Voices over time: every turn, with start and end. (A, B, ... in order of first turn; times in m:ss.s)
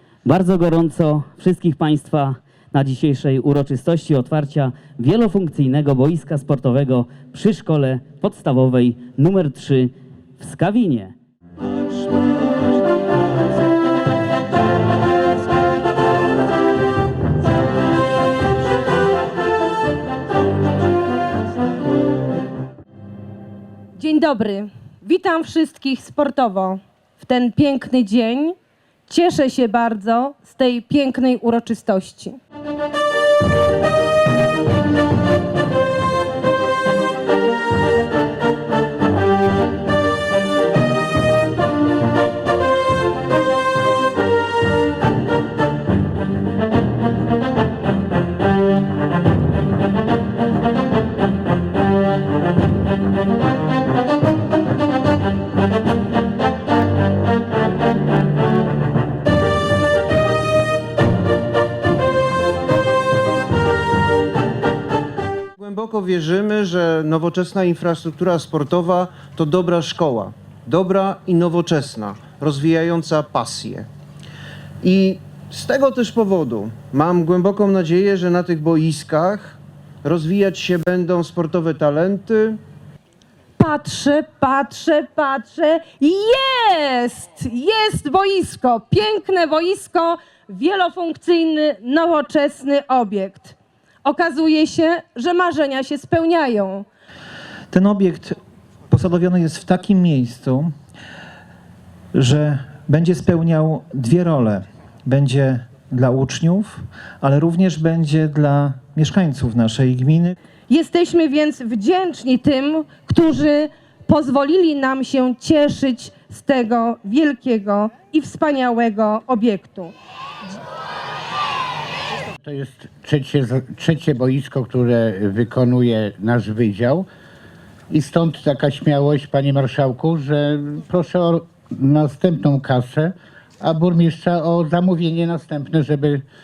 0:00.2-0:11.1 A
0:24.0-0:32.4 B
1:05.6-1:13.9 C
1:14.8-1:22.6 C
1:23.6-1:36.8 B
1:37.7-1:38.4 D
1:38.9-1:40.7 D
1:42.1-1:50.3 D
1:50.7-1:59.9 B
2:02.4-2:07.1 E
2:07.9-2:16.2 E